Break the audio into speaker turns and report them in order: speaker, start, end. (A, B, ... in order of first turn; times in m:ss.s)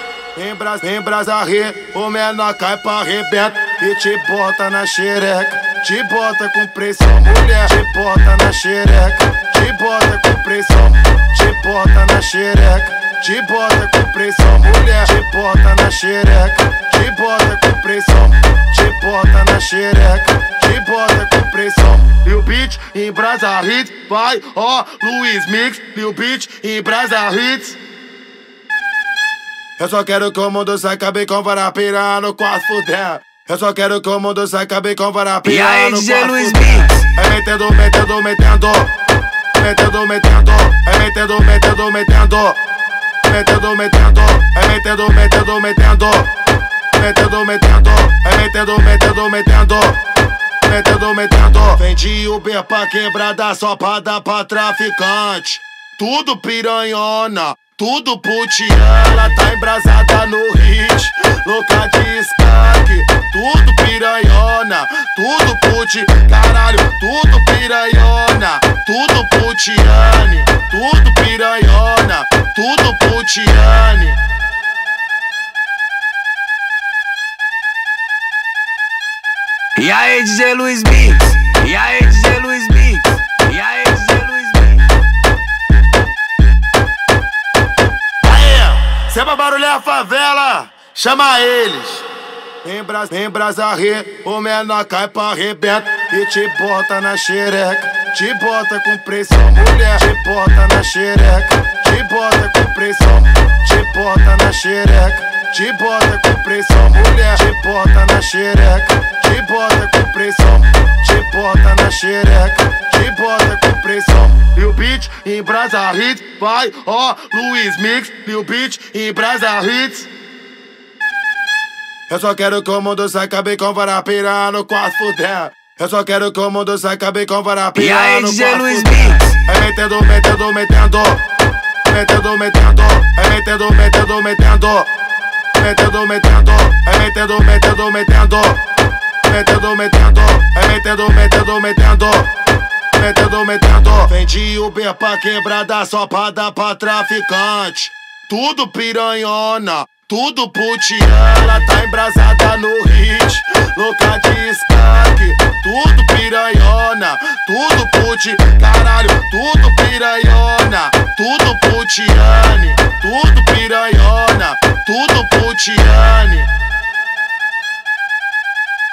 0:00.3-0:27.8 A
0:29.8-0:38.9 A
0:35.4-0:37.0 B
0:39.6-0:42.6 A
0:43.2-0:46.3 A
0:46.9-0:50.0 A
0:50.6-1:14.2 A
1:19.8-1:24.8 B
1:28.2-1:32.0 A
1:32.6-2:00.1 A
2:02.1-2:11.2 A
2:07.7-2:09.3 B
2:11.8-2:14.9 A
2:15.6-2:18.6 A
2:19.2-2:22.3 A
2:22.9-2:46.5 A